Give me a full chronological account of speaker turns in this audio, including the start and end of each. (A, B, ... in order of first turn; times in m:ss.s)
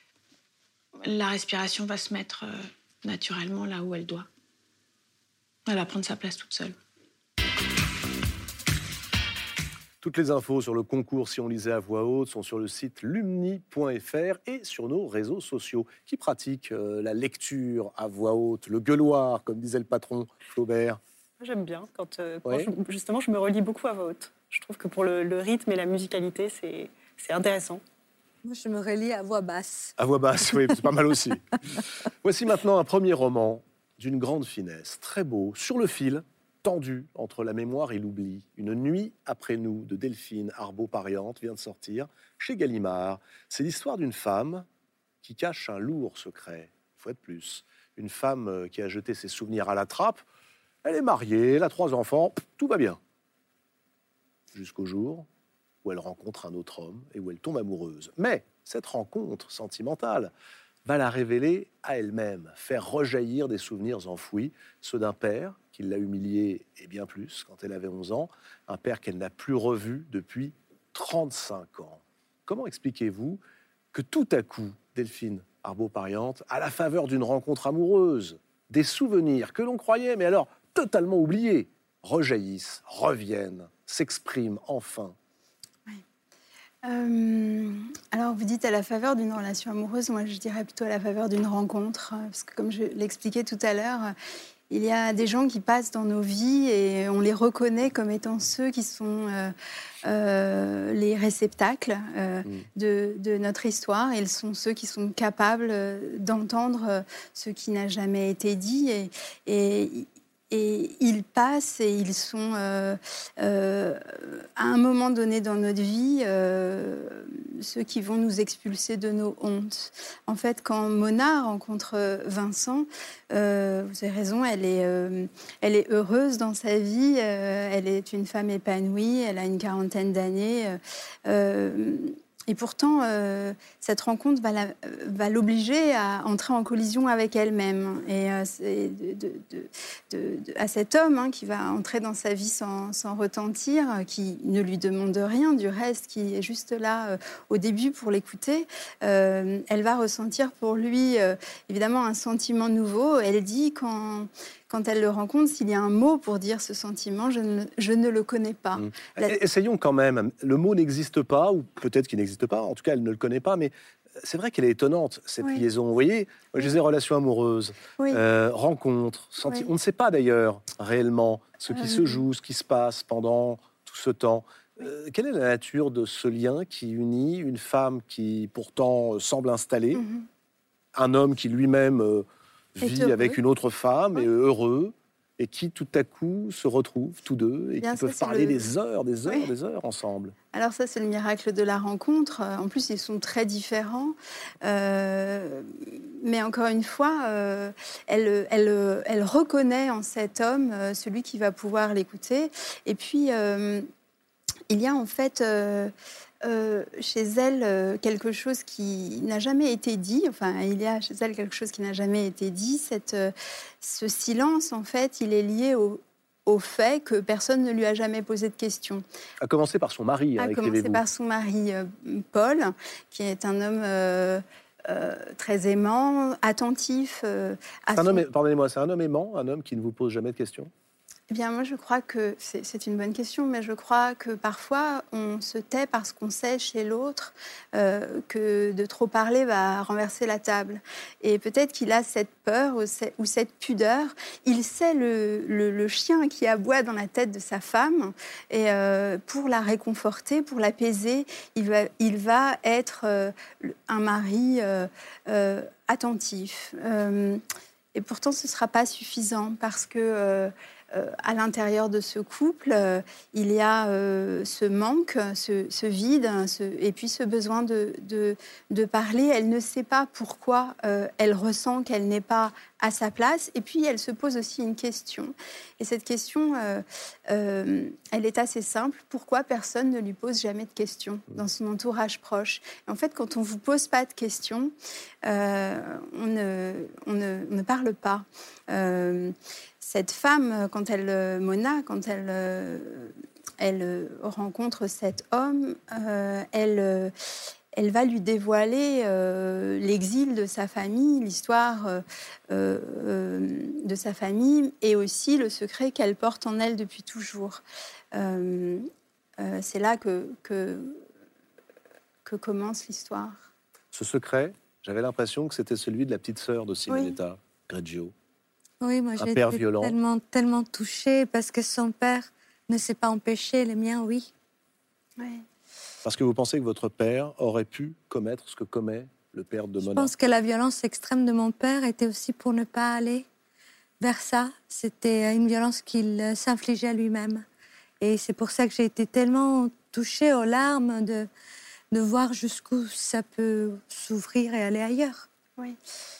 0:01.0-0:04.3 A
0:05.7-0:06.8 A
0:10.0-0:21.0 B
0:21.4-0:27.8 C
0:22.4-0:22.7 B
0:28.4-0:29.9 D
0:30.0-0:31.4 B
0:32.2-0:44.7 B
0:45.2-0:50.2 B
0:50.8-0:53.0 B
0:54.5-0:55.3 B
0:55.8-1:00.3 B
1:00.8-1:13.4 B
1:13.9-1:25.2 B
1:26.8-1:34.2 E
1:34.7-2:39.4 E
2:38.8-3:00.0 B
2:51.7-2:52.2 E
3:00.0-3:00.3 E
3:01.0-3:10.4 B
3:02.8-3:03.4 E
3:07.8-3:08.6 E
3:10.5-3:23.9 E
3:24.7-3:39.0 E
3:39.4-3:41.0 B
3:40.4-3:48.2 E
3:47.9-3:50.7 B
3:51.3-4:17.4 E
4:18.0-4:44.7 E
4:45.2-4:57.1 E
4:57.7-5:07.6 E
5:08.1-5:08.9 E
5:09.4-5:11.0 E
5:12.2-5:13.4 E
5:13.9-5:18.1 B
5:18.8-5:24.3 D
5:19.2-5:20.0 B
5:25.2-5:25.4 E
5:26.0-5:30.1 B
5:29.8-5:33.3 D
5:34.0-5:37.4 D
5:38.0-5:41.3 D
5:41.9-5:45.3 D